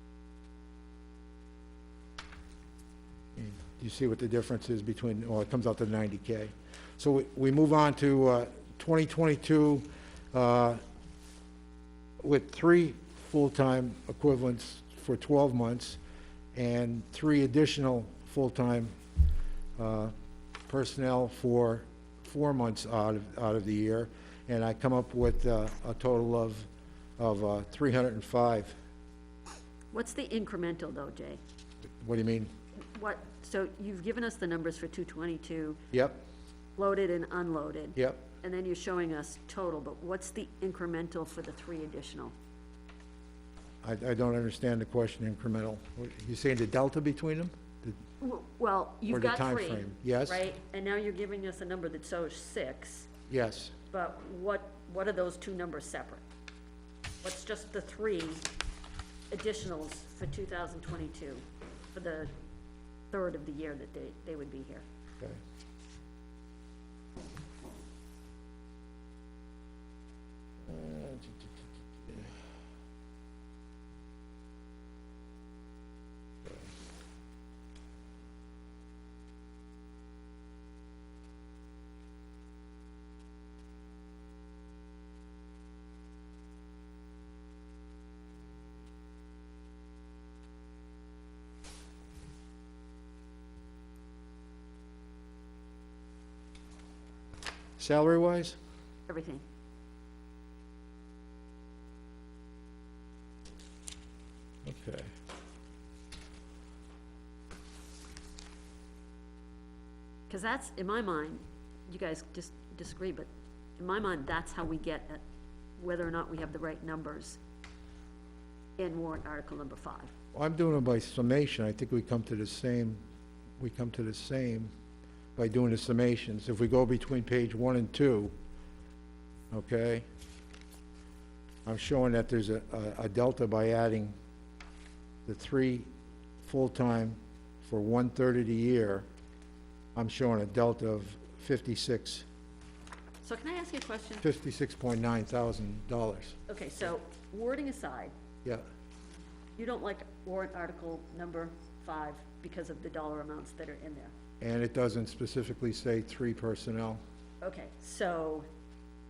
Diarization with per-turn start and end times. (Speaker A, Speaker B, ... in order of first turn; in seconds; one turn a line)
Speaker A: 3.4-10.8
Speaker A: 12.2-16.0
Speaker A: 16.5-19.0
Speaker A: 19.8-20.1
Speaker A: 20.7-28.7
Speaker B: 29.9-31.4
Speaker A: 32.0-32.5
Speaker B: 32.9-35.8
Speaker A: 35.9-36.2
Speaker B: 36.8-42.3
Speaker A: 38.0-38.2
Speaker A: 43.8-48.0
Speaker B: 48.2-53.1
Speaker A: 49.1-50.4
Speaker A: 53.3-53.7
Speaker B: 53.9-56.2
Speaker B: 57.2-58.4
Speaker B: 59.3-62.3
Speaker B: 63.1-64.8
Speaker A: 70.6-72.4
Speaker A: 97.8-98.6
Speaker B: 99.1-99.4
Speaker A: 104.6-105.1
Speaker B: 110.3-115.2
Speaker B: 115.8-117.4
Speaker B: 118.8-120.1
Speaker A: 120.3-123.0
Speaker A: 123.6-124.7
Speaker A: 125.3-128.3
Speaker A: 129.5-130.1
Speaker A: 131.6-134.1
Speaker A: 135.2-135.9
Speaker A: 136.4-139.1
Speaker A: 139.9-142.2
Speaker B: 143.2-144.2
Speaker A: 144.2-146.3
Speaker B: 146.5-148.1
Speaker B: 149.6-154.1
Speaker A: 154.4-157.0
Speaker B: 157.4-158.5